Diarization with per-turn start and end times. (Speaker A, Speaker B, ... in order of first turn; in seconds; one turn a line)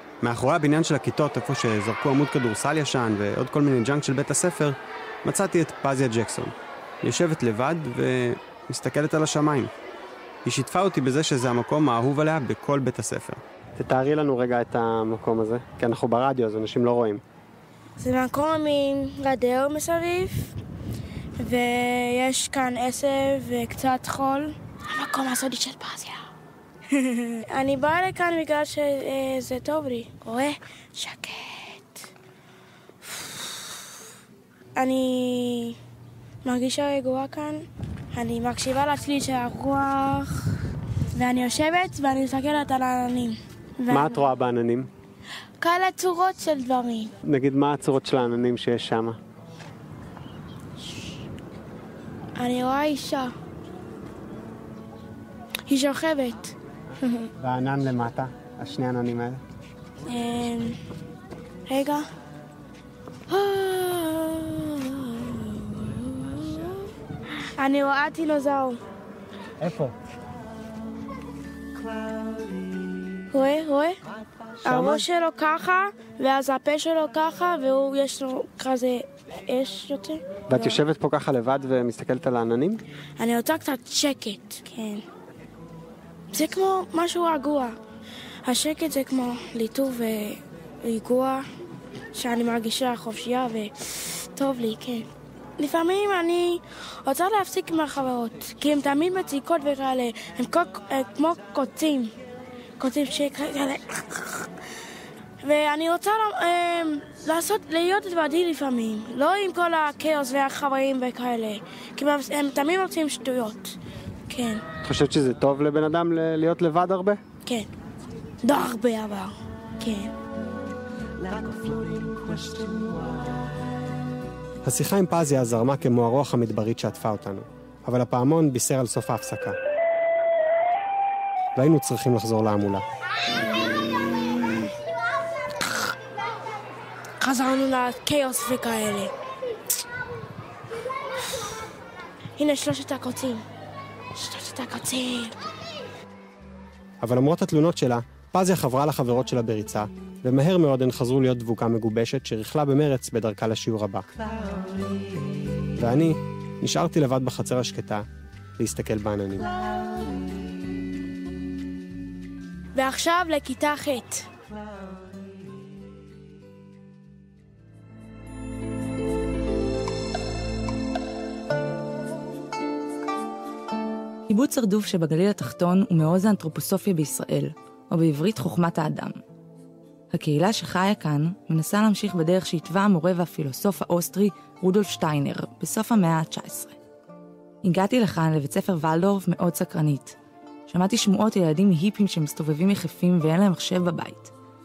Speaker A: 0.2-9.7
Speaker A: 10.4-17.2
Speaker B: 18.0-20.5
Speaker B: 21.4-26.2
Speaker B: 26.9-32.0
Speaker B: 33.0-33.6
Speaker B: 34.8-35.8
Speaker B: 36.4-40.4
Speaker B: 41.1-44.3
Speaker A: 43.9-44.9
Speaker B: 45.6-47.1
Speaker A: 47.2-49.2
Speaker B: 52.4-53.3
Speaker B: 55.7-57.3
Speaker A: 57.4-59.4
Speaker B: 60.0-60.8
Speaker B: 61.7-62.0
Speaker B: 63.3-66.8
Speaker B: 67.6-68.8
Speaker B: 73.3-74.0
Speaker B: 74.6-80.8
Speaker A: 80.5-82.8
Speaker B: 83.2-85.0
Speaker B: 86.3-87.8
Speaker B: 88.4-91.4
Speaker B: 92.1-95.1
Speaker B: 95.6-102.1
Speaker B: 102.8-104.4
Speaker B: 105.4-113.8
Speaker B: 114.3-114.6
Speaker A: 114.8-117.2
Speaker B: 118.4-120.1
Speaker A: 124.6-129.6
Speaker A: 131.6-132.8
Speaker B: 137.2-139.1
Speaker B: 142.4-143.4
Speaker B: 144.1-145.3
Speaker A: 147.0-154.1
Speaker A: 155.8-158.0
Speaker A: 158.6-159.5
Speaker B: 162.7-164.2
Speaker C: 174.3-179.2
Speaker C: 180.1-186.8
Speaker C: 187.6-190.2
Speaker C: 190.7-194.3